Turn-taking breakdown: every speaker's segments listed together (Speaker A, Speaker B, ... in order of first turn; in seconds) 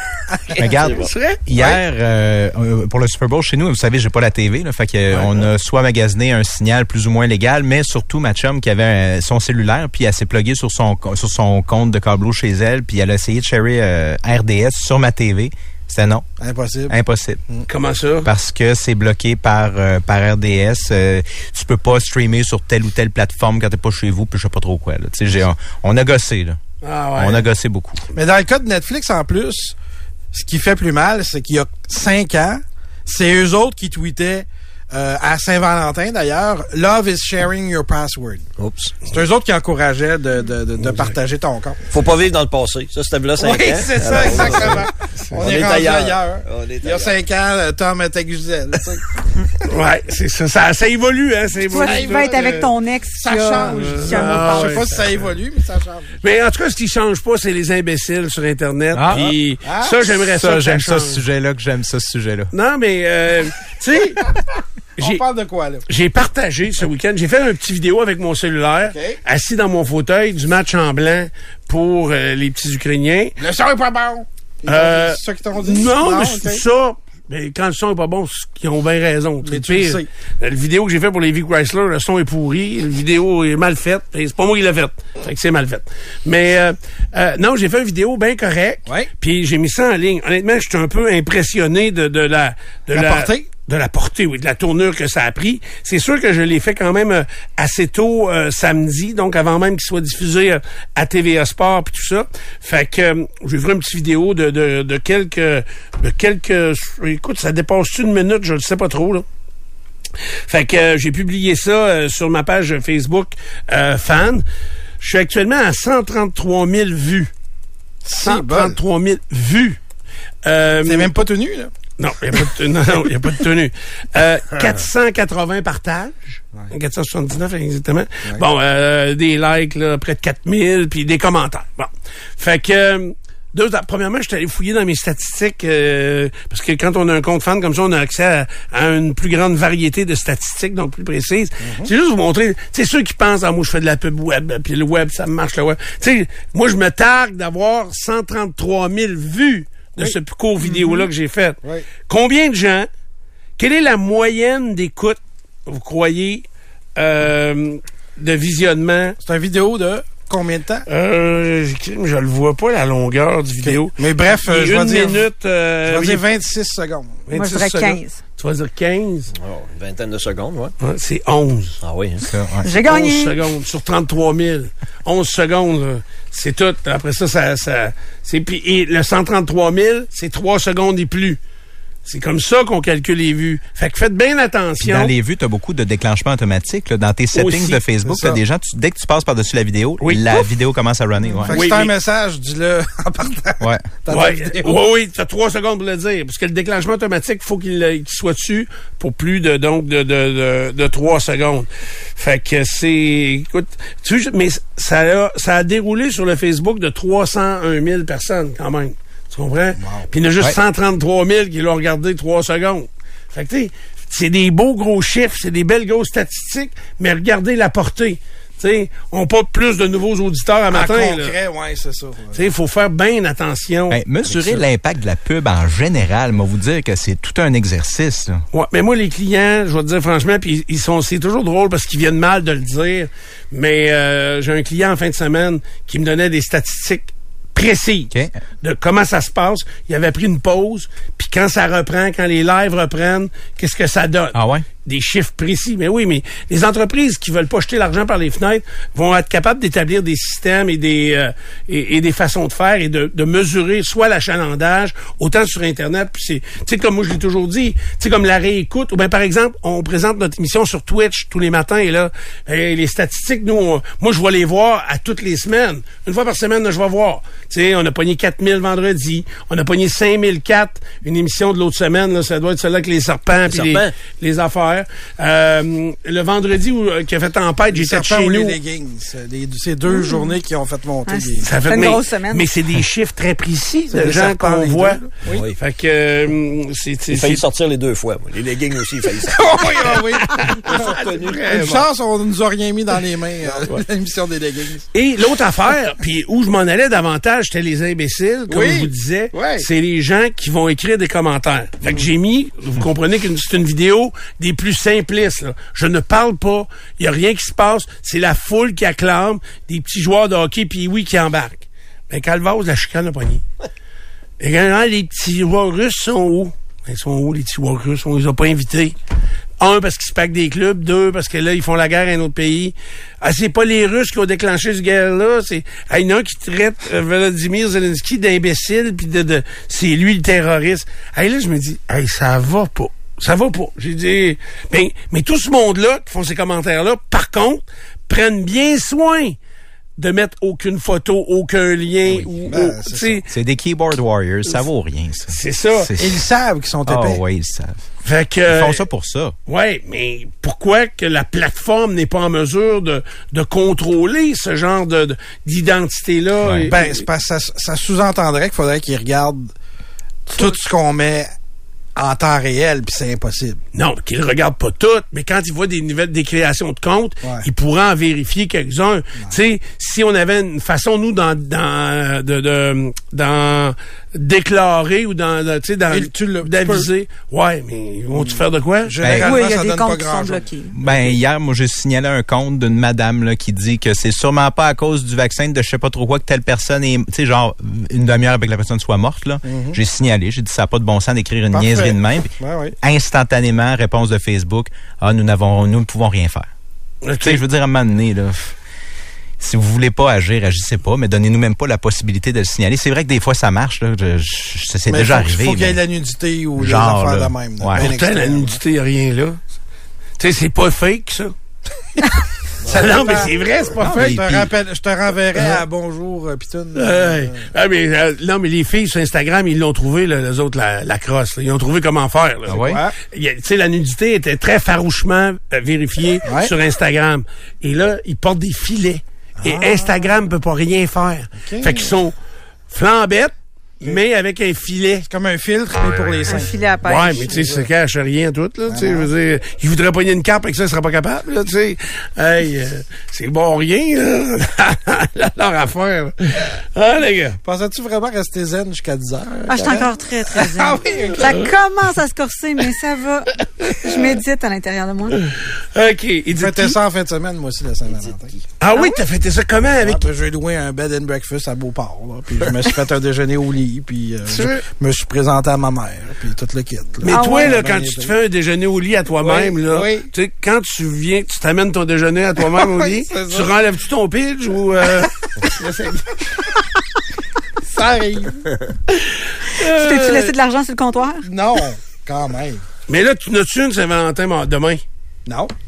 Speaker A: 0.3-0.6, 1.6-1.8, 16.4-17.0, 28.1-29.8, 30.3-38.5, 39.1-41.8, 43.4-49.2, 51.8-56.1, 59.6-60.0, 65.0-65.8, 68.9-69.2, 73.4-76.6, 79.4-80.1, 92.9-93.5, 118.0-118.8, 120.8-121.7, 141.6-141.9, 159.2-160.8, 163.6-165.2, 165.9-167.2, 188.0-188.4, 191.5-194.8, 209.8-210.1, 220.7-222.5, 277.7-281.5, 283.9-285.4, 289.3-294.9, 298.5-299.7, 342.4-343.2, 346.0-347.2, 356.7-359.5, 360.3-361.3, 362.0-363.6, 375.9-376.9, 378.1-380.5, 389.4-389.8, 391.5-392.8, 404.9-408.6, 412.6-417.4, 422.5-423.0, 426.3-426.5, 429.4-430.1, 431.4-431.9, 435.1-436.6, 437.3-437.7, 438.7-439.1, 447.4-451.4, 456.3-458.4, 459.8-468.1, 469.2-470.1, 472.4-473.5, 477.6-478.4, 481.2-482.6, 485.3-485.5
Speaker B: 0.6-16.3, 16.9-17.4, 18.2-26.6, 27.2-28.0, 58.9-59.2, 60.1-62.5, 172.2-172.7, 184.8-191.6, 193.6-193.9, 223.9-228.4, 244.3-244.7, 343.3-346.2, 346.9-347.9, 348.5-349.4, 356.4-356.7, 379.0-379.4, 380.7-396.5, 397.2-398.6, 399.4-405.8, 406.6-407.9, 413.8-414.5, 422.5-422.8
Speaker C: 0.8-1.1, 38.6-39.1, 41.9-47.1, 169.3-170.7, 171.8-172.3, 273.4-273.9, 285.3-285.6, 287.1-289.6, 290.7-291.6
Speaker D: 0.8-1.4, 17.7-18.3, 26.8-27.5, 40.8-41.1, 44.1-45.3, 49.7-52.5, 53.6-55.3, 56.2-61.2, 62.5-64.3, 65.0-65.2, 65.9-73.4, 74.7-109.2, 110.5-114.5, 115.0-117.3, 118.2-119.8, 120.5-121.1, 122.0-152.9, 153.6-156.4, 157.0-159.2, 160.9-166.2, 167.3-169.3, 170.8-171.8, 172.8-181.4, 182.1-185.1, 187.3-187.8, 190.0-190.5, 191.5-191.9, 194.1-221.3, 222.3-224.6, 228.5-278.6, 281.4-285.0, 285.6-287.4, 290.3-291.9, 294.9-313.4, 314.4-318.9, 319.6-339.4, 340.0-343.3, 345.3-345.9, 348.0-348.8, 349.5-357.1, 363.7-379.0, 397.0-397.4, 407.8-409.4, 410.2-411.3, 412.7-414.1, 415.4-415.6, 416.8-432.1, 432.7-435.1, 436.9-447.4, 455.2-456.8, 458.6-460.1, 464.3-464.6, 467.0-476.1, 478.9-480.3, 482.9-484.8
Speaker E: 51.7-54.9, 150.8-151.0, 167.3-168.2, 172.6-173.3, 279.9-280.3, 281.1-282.5, 379.2-380.7, 436.3-437.5, 449.5-455.2, 458.7-459.0, 467.1-467.6, 479.6-481.3